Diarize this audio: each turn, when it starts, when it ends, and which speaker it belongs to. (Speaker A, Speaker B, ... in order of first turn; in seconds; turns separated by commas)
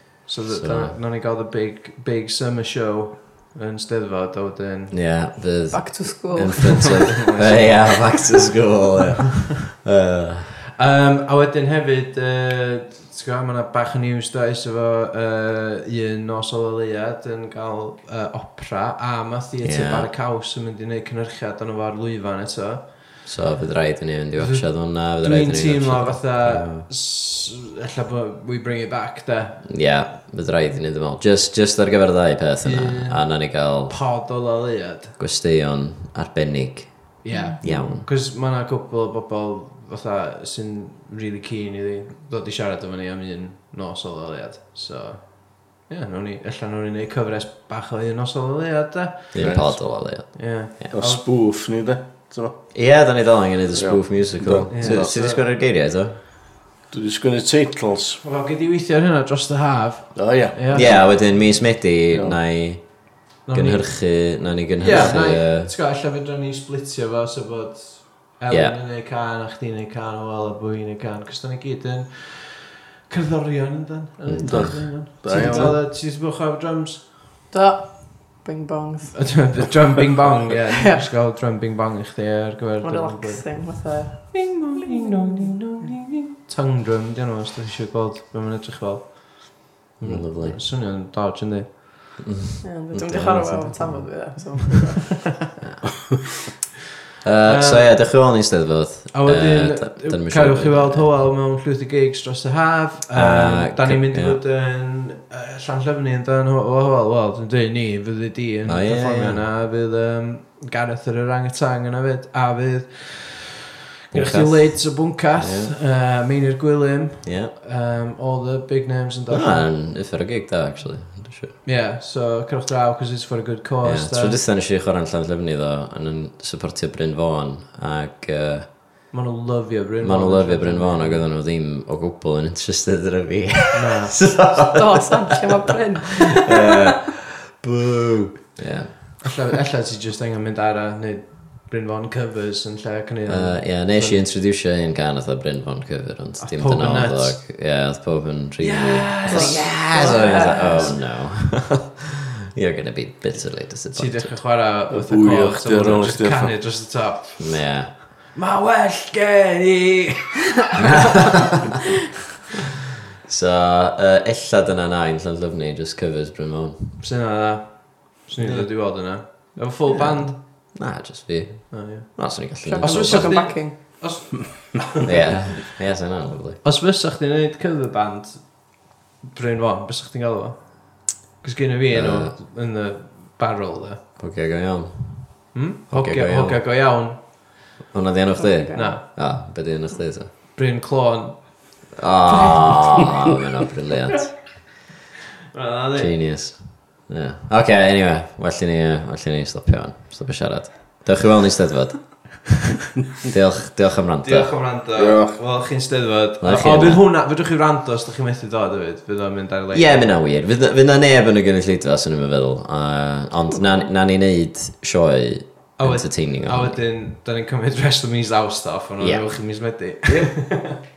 Speaker A: 0.3-5.0, Speaker B: 0.5-1.0, Speaker B: 4.9-10.6, Speaker C: 5.7-7.2, Speaker A: 7.3-7.9, Speaker A: 10.8-23.2, Speaker B: 19.6-20.1, Speaker B: 23.3-26.9, Speaker A: 24.4-29.7, Speaker B: 29.7-34.0, Speaker A: 32.6-35.1, Speaker B: 35.2-38.1, Speaker A: 37.2-51.2, Speaker C: 37.3-37.6, Speaker B: 49.3-50.9, Speaker D: 49.4-49.8, Speaker D: 50.9-52.6, Speaker B: 52.7-56.2, Speaker D: 53.7-55.1, Speaker A: 54.7-55.4, Speaker D: 56.9-58.2, Speaker A: 58.2-61.0, Speaker D: 60.2-60.9, Speaker B: 60.7-65.7, Speaker A: 63.5-77.0, Speaker B: 68.5-68.8, Speaker B: 74.2-75.0, Speaker D: 74.5-75.8, Speaker C: 77.5-79.3, Speaker A: 79.2-91.8, Speaker C: 82.8-85.3, Speaker B: 90.0-90.6, Speaker B: 92.2-94.0, Speaker C: 92.6-95.3, Speaker B: 97.2-101.1, Speaker A: 97.5-97.9, Speaker A: 99.1-113.5, Speaker B: 103.1-104.4, Speaker B: 108.7-109.4, Speaker A: 114.1-119.7, Speaker B: 114.1-115.8, Speaker B: 117.2-117.5, Speaker B: 119.3-121.6, Speaker A: 121.6-124.4, Speaker B: 123.8-129.1, Speaker A: 129.1-131.3, Speaker B: 130.0-139.3, Speaker A: 133.7-134.2, Speaker C: 134.5-136.9, Speaker A: 139.2-144.2, Speaker B: 143.3-152.0, Speaker A: 146.4-147.4, Speaker A: 148.6-150.9, Speaker C: 149.3-151.0, Speaker B: 152.5-154.4, Speaker A: 153.9-160.8, Speaker D: 154.9-156.6, Speaker B: 157.4-157.9, Speaker B: 160.8-161.7, Speaker B: 163.3-167.0, Speaker A: 167.0-170.7, Speaker B: 168.4-168.7, Speaker C: 169.9-170.2, Speaker B: 170.4-173.6, Speaker A: 171.7-175.4, Speaker C: 172.8-174.0, Speaker B: 175.1-176.6, Speaker A: 176.6-184.1, Speaker B: 181.9-182.3, Speaker B: 184.2-186.6, Speaker A: 185.5-187.2, Speaker B: 187.9-190.3, Speaker C: 188.4-188.9, Speaker A: 188.8-189.0, Speaker A: 190.5-191.4, Speaker B: 192.0-194.3, Speaker A: 195.5-196.1, Speaker B: 196.0-202.7, Speaker B: 203.2-204.6, Speaker A: 204.2-210.1, Speaker D: 205.0-205.3, Speaker B: 206.4-207.0, Speaker B: 209.7-216.8, Speaker A: 215.8-220.8, Speaker B: 219.0-219.3